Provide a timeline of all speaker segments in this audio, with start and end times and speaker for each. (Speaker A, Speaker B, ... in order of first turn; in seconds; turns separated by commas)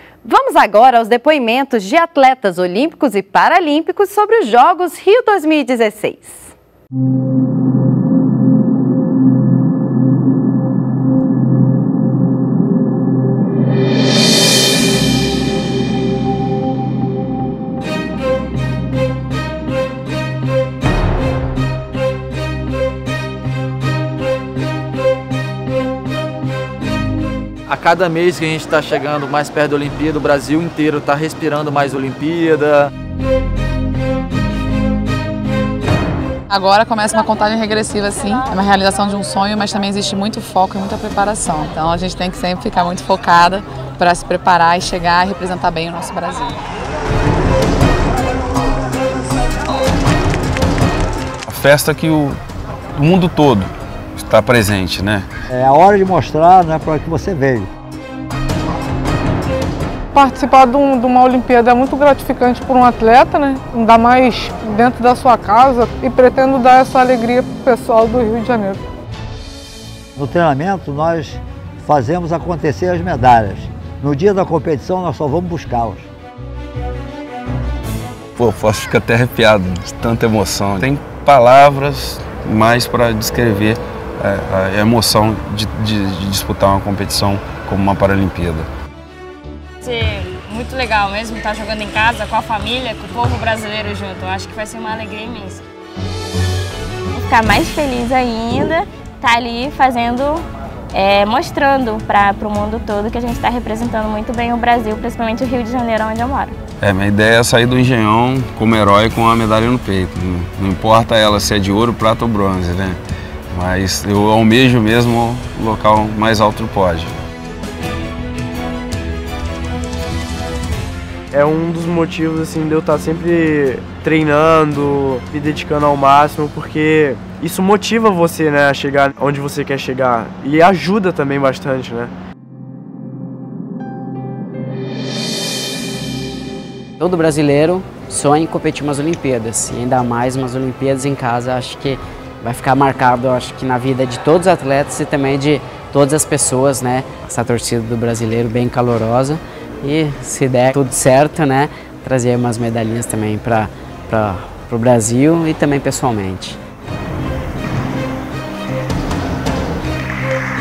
Speaker A: 0.2-6.5, Speaker B: 27.7-32.9, Speaker C: 36.6-44.5, Speaker C: 45.2-46.4, Speaker D: 51.5-52.3, Speaker D: 53.0-53.6, Speaker D: 54.4-55.2, Speaker E: 55.5-57.7, Speaker F: 60.1-68.8, Speaker E: 70.2-76.1, Speaker D: 78.4-88.7, Speaker G: 89.8-95.6, Speaker C: 90.6-95.4, Speaker H: 97.2-106.5, Speaker D: 106.8-113.0, Speaker D: 113.5-117.1, Speaker I: 121.3-132.1, Speaker J: 137.0-156.6